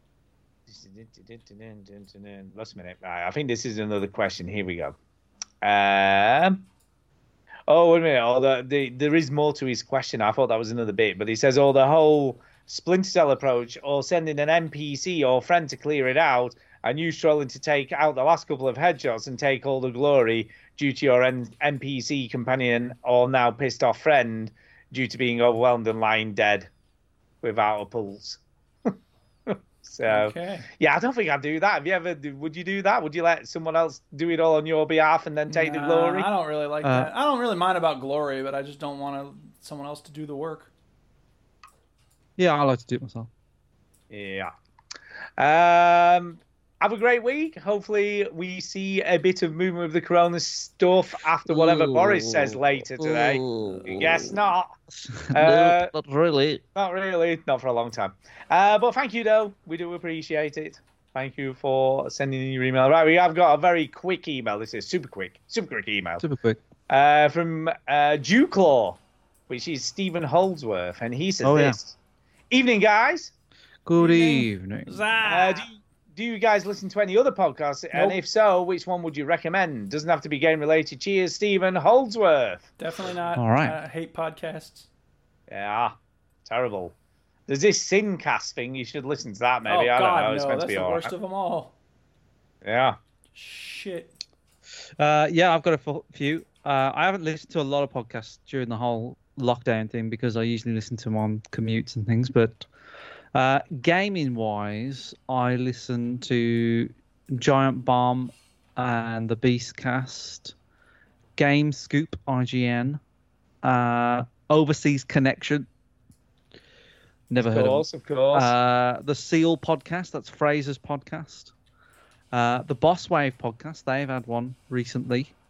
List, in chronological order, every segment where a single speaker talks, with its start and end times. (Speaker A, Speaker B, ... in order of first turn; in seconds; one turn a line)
Speaker A: 0.7-5.0
Speaker A: 5.6-6.7
Speaker A: 7.7-26.7
Speaker A: 27.4-28.9
Speaker A: 29.5-36.3
Speaker B: 30.1-30.7
Speaker B: 35.5-40.7
Speaker C: 36.8-37.1
Speaker C: 42.4-43.3
Speaker A: 44.1-44.5
Speaker A: 45.4-54.7
Speaker C: 51.5-54.3
Speaker C: 55.0-56.6
Speaker A: 55.3-55.9
Speaker A: 56.7-66.2
Speaker C: 66.2-66.6
Speaker A: 66.9-72.0
Speaker C: 71.4-71.8
Speaker A: 72.5-73.3
Speaker C: 73.8-75.0
Speaker B: 74.0-75.7
Speaker A: 75.2-82.7
Speaker B: 77.9-78.2
Speaker B: 82.8-84.9
Speaker C: 83.3-83.8
Speaker A: 85.5-86.9
Speaker A: 87.5-91.1
Speaker B: 89.6-91.7
Speaker A: 92.6-93.0
Speaker B: 93.3-94.1
Speaker C: 95.0-102.7
Speaker C: 103.3-110.5
Speaker C: 111.4-113.0
Speaker C: 113.6-115.7
Speaker C: 117.3-121.5
Speaker A: 117.4-118.5
Speaker C: 122.3-125.3